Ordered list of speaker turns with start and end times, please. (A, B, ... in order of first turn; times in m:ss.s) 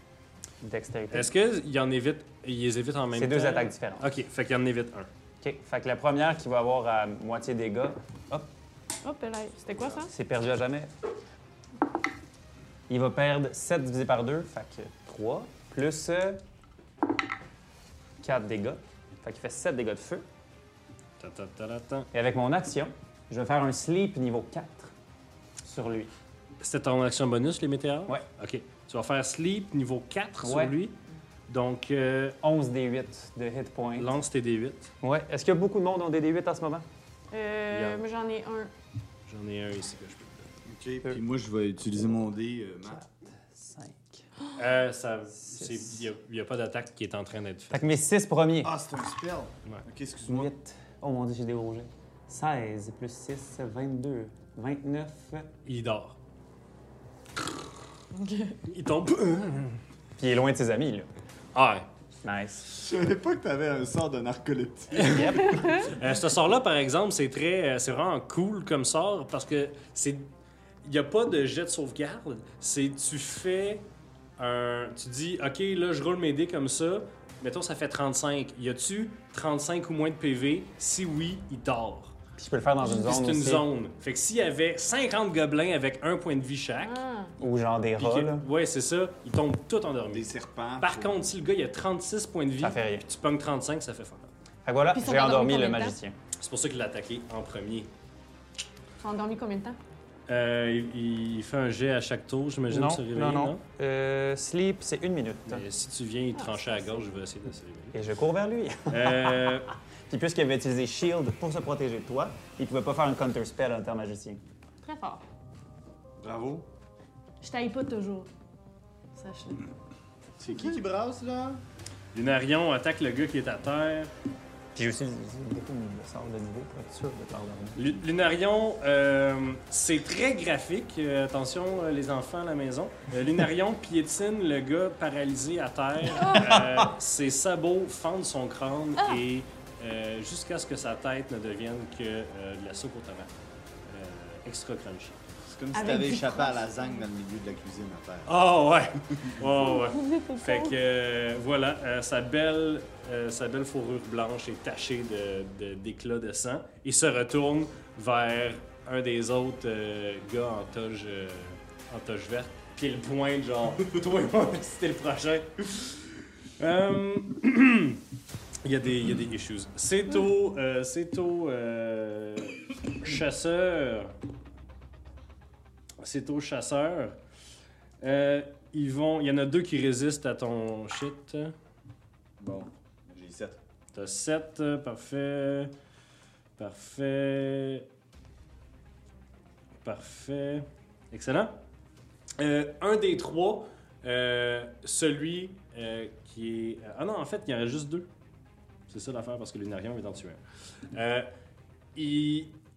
0:00.6-0:01.3 A
0:01.1-0:05.1 B
0:03.1-0:04.1 A
0:05.4-0:08.5 A
0:09.0-0:10.1 C
0:10.0-0:10.9 A
0:12.9-0:16.4 A
0:18.2-0:20.2 A
0:21.2-0:22.1 B
0:22.1-0:24.9 A
0:25.6-0:26.1 A
0:26.6-0:31.0 B
0:30.4-0:30.8 A
0:31.5-0:32.4 B
0:32.4-0:34.2 A
0:34.0-0:34.9 B
0:35.0-0:36.8 A
0:37.3-0:38.7 C
0:37.7-0:38.0 B
0:39.3-0:40.5 B
0:40.6-0:43.0 D
0:43.0-0:44.3 A
0:44.6-0:47.8 B
0:45.4-0:46.0 A
0:47.7-0:48.7 A
0:48.6-0:50.5 D
0:50.3-0:55.5 A
0:55.6-0:56.2 B
0:58.1-0:58.6 C
0:58.7-0:59.8 B
1:00.2-1:01.1 A
1:01.5-1:01.9 B
1:02.2-1:02.6 A
1:02.7-1:05.6 D
1:04.9-1:10.3 B
1:05.0-1:05.8 A
1:05.4-1:05.9 C
1:10.8-1:13.8 B
1:14.4-1:22.1 B
1:22.4-1:23.6 A
1:22.8-1:27.0 B
1:26.8-1:27.3 C
1:27.4-1:28.5 A
1:28.0-1:30.3 B
1:30.1-1:31.2 D
1:30.8-1:34.3 B
1:32.6-1:33.0 A
1:34.6-1:36.1 A
1:34.9-1:36.0 C
1:36.4-1:37.9 B
1:39.0-1:39.8 C
1:40.3-1:43.6 B
1:42.7-1:45.6 A
1:45.4-1:48.0 B
1:46.3-1:47.1 C
1:47.9-1:54.4 A
1:48.9-1:49.7 B
1:54.8-1:55.2 C
1:56.2-1:56.7 D
1:57.4-1:58.3 C
1:59.1-1:59.7 C
2:00.4-2:01.6 D
2:02.1-2:04.1 B
2:04.8-2:07.8 A
2:07.8-2:23.3 B
2:16.2-2:16.5 C
2:16.2-2:16.9 A
2:23.8-2:25.2 B
2:25.5-2:28.3 D
2:25.7-2:27.0 C
2:28.2-2:48.0 B
2:29.5-2:30.8 C
2:48.6-2:54.1 B
2:56.0-2:57.2 B
2:58.0-3:01.5 B
3:02.4-3:03.6 D
3:03.9-3:05.7 B
3:06.6-3:07.8 B
3:09.8-3:11.6 B
3:12.4-3:18.1 B
3:18.9-3:21.3 B
3:21.9-3:22.6 B